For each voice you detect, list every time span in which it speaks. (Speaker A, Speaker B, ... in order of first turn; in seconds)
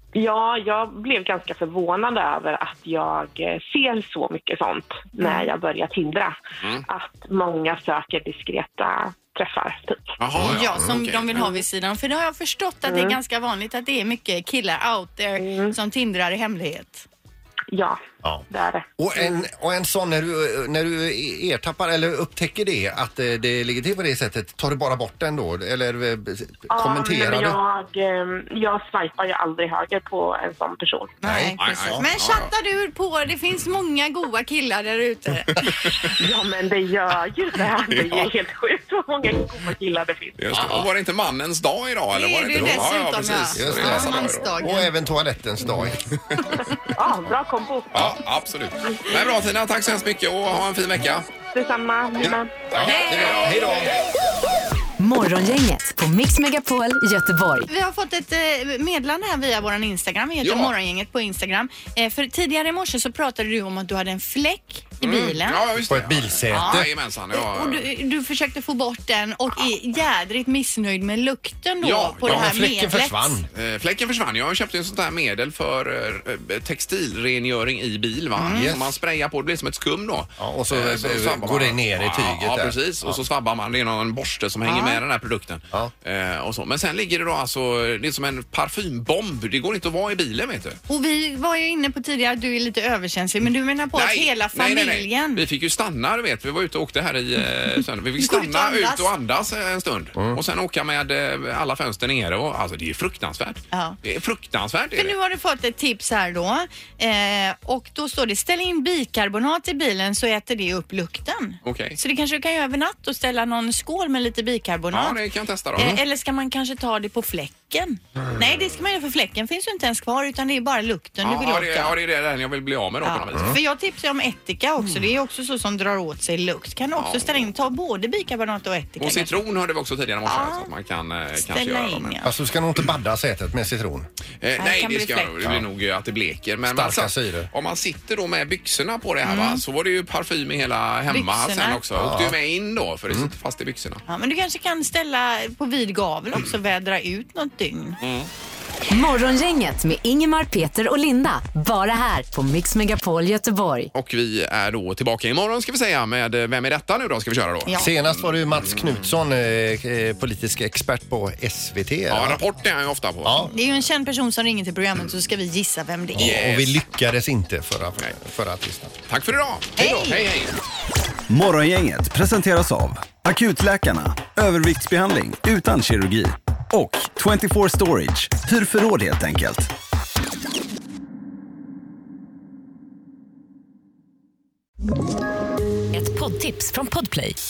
Speaker A: 0.1-10.2, 12.9-13.2, 15.4-15.8, 17.7-18.9, 26.7-31.2, 36.1-40.8, 46.9-48.2, 51.5-52.6
Speaker B: 5.2-5.5, 10.4-17.1, 31.2-36.0, 42.1-44.9, 57.7-65.6, 66.5-73.4, 78.4-78.8, 84.7-85.0, 90.9-95.4, 98.2-99.1, 103.7-104.0, 105.0-115.2, 115.8-122.0, 123.0-129.4, 130.3-130.7, 131.4-132.3, 134.6-135.5, 139.2-139.6, 141.1-141.8, 144.1-148.0, 157.7-157.9, 163.5-166.4, 169.8-170.2
Speaker C: 10.2-11.4, 31.6-32.5, 37.9-38.3, 40.4-44.5, 47.9-51.3, 52.8-53.9, 60.4-60.7, 65.0-67.9, 71.8-72.5, 73.5-90.8, 93.9-105.2, 111.6-112.0, 114.9-116.0, 121.2-123.6, 127.0-127.5, 129.0-132.2, 134.4-144.0, 148.0-148.3, 153.9-159.1, 162.1-163.5, 166.2-166.8, 169.1-170.6
Speaker D: 10.4-10.9, 19.0-27.6, 31.2-32.1, 42.5-42.9, 43.5-46.0, 52.7-53.9, 65.9-66.9, 72.2-73.5, 78.5-79.0, 80.4-83.2, 123.3-123.6, 132.2-134.1, 136.7-137.5, 141.9-142.4, 157.8-162.4, 163.2-163.5, 166.2-169.0
Speaker E: 55.0-57.7, 148.9-153.9, 185.9-187.4
Speaker F: 171.3-179.7